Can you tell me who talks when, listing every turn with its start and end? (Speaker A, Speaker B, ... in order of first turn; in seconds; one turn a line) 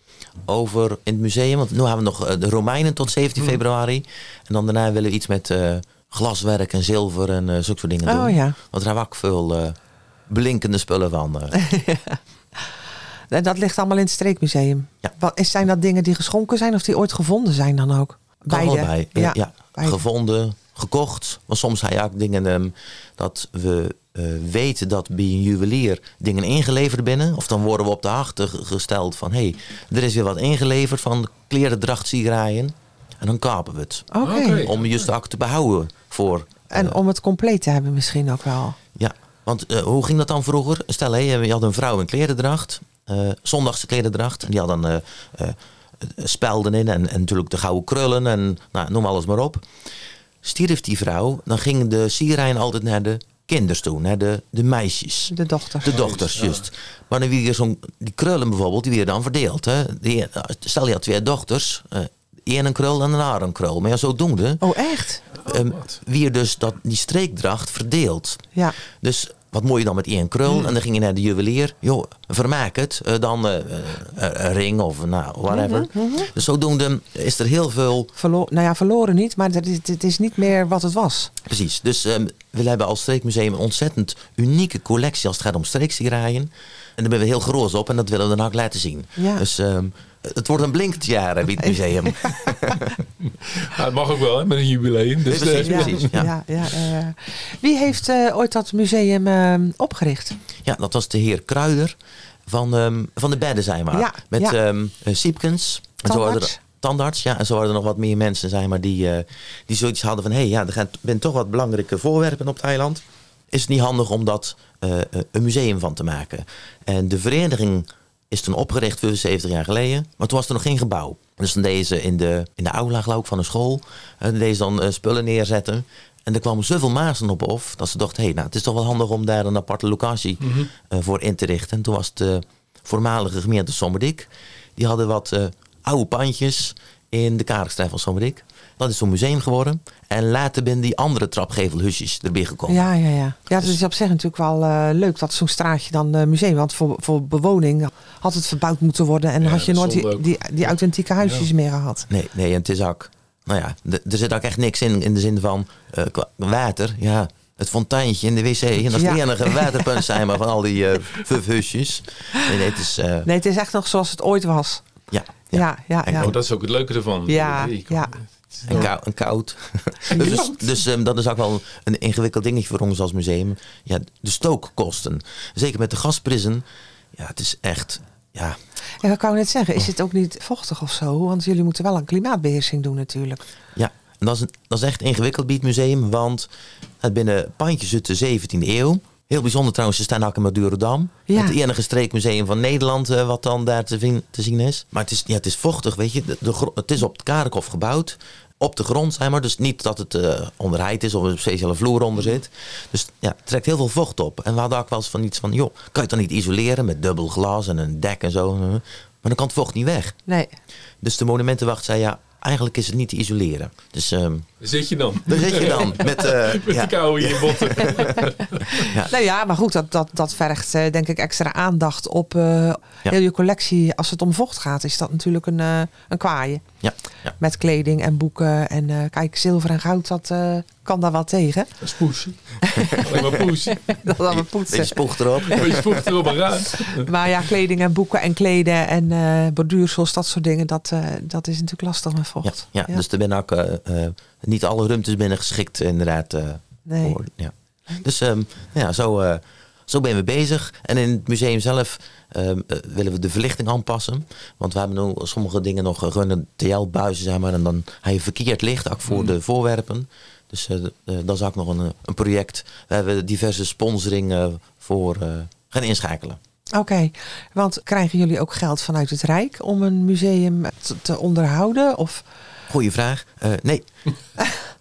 Speaker A: 0.5-9.8
Speaker B: 8.0-8.6
Speaker A: 10.3-11.6
Speaker B: 11.6-12.2
Speaker B: 13.3-20.0
Speaker A: 18.5-37.0
Speaker B: 34.1-34.7
Speaker C: 34.2-34.9
Speaker B: 36.7-38.8
Speaker A: 39.0-49.6
Speaker A: 50.4-64.6
Speaker B: 55.3-55.9
Speaker C: 55.8-56.6
Speaker B: 64.6-65.2
Speaker C: 65.4-66.0
Speaker A: 65.4-78.1
Speaker B: 75.5-76.3
Speaker B: 78.2-81.3
Speaker A: 81.4-92.9
Speaker B: 89.2-89.4
Speaker B: 91.6-92.7
Speaker C: 93.2-96.2
Speaker A: 95.3-96.3
Speaker B: 95.6-100.4
Speaker A: 100.6-102.0
Speaker A: 102.5-142.9
Speaker B: 103.9-104.6
Speaker B: 106.0-106.6
Speaker C: 130.4-130.7
Speaker B: 142.7-152.1
Speaker C: 149.4-151.5
Speaker A: 152.1-163.3
Speaker B: 158.9-160.0
Speaker B: 163.2-164.8
Speaker A: 165.1-166.3
Speaker B: 165.5-166.3
Speaker C: 166.2-168.9
Speaker B: 167.3-168.9
Speaker A: 168.7-176.6
Speaker B: 170.1-170.5
Speaker C: 170.1-170.4
Speaker A: 177.2-178.6
Speaker B: 179.0-183.4
Speaker A: 183.8-186.5
Speaker A: 187.0-210.2
Speaker B: 191.3-191.6
Speaker B: 210.3-210.5
Speaker A: 211.0-214.5
Speaker C: 214.6-218.9
Speaker A: 215.2-219.1
Speaker B: 218.8-226.7
Speaker A: 226.8-227.3
Speaker B: 227.4-231.8
Speaker C: 231.8-234.2
Speaker B: 232.6-235.9
Speaker A: 234.3-235.9
Speaker C: 235.4-237.1
Speaker B: 236.9-243.0
Speaker A: 242.4-266.4
Speaker B: 246.9-247.2
Speaker C: 259.1-259.3
Speaker B: 266.7-272.2
Speaker A: 272.7-273.9